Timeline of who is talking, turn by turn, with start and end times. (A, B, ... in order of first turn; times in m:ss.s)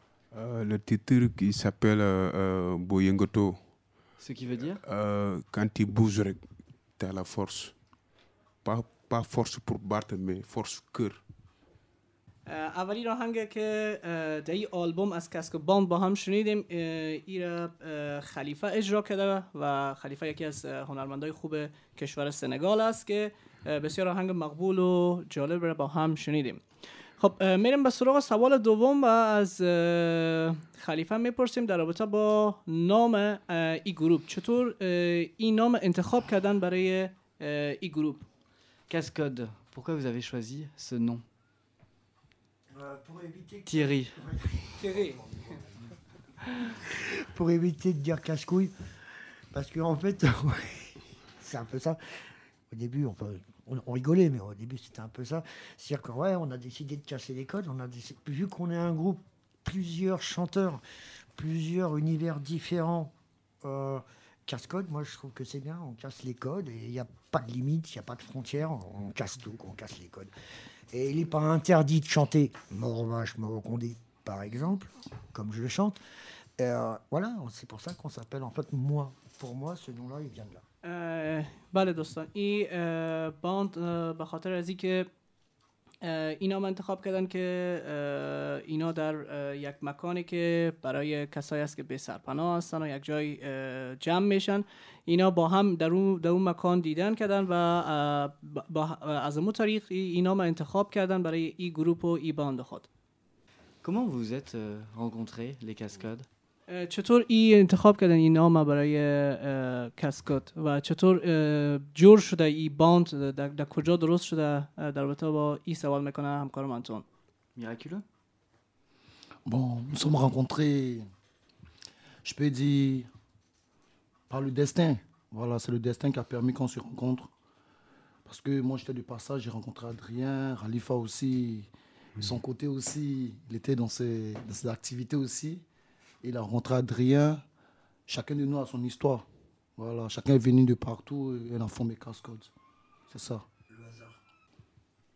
0:00.3-0:03.6 A
0:04.2-0:04.8 B
0:04.8-0:06.4 A
0:07.0-0:07.7 A
0:08.6-0:11.2 A
0:12.5-0:26.6 C
0:27.2-0:38.2 C
0:38.9-0:41.2 B
0:42.7-0:45.6 D
0:43.7-0:44.2 B
0:46.8-0:48.7 D
0:49.5-1:00.8 D
1:01.3-1:10.3 D
1:10.9-1:16.0 D
1:16.6-1:20.6 D
1:20.8-1:25.1 C
1:26.0-1:42.9 C
1:43.8-1:46.3 B
1:46.7-1:57.0 C
1:57.5-1:58.0 B
1:59.4-2:01.1 E
2:02.2-2:03.1 E
2:04.3-2:07.3 E
2:08.2-2:15.6 E
2:16.2-2:17.4 E
2:18.1-2:19.2 E
2:19.8-2:22.5 E
2:23.1-2:23.4 E
2:23.7-2:24.1 D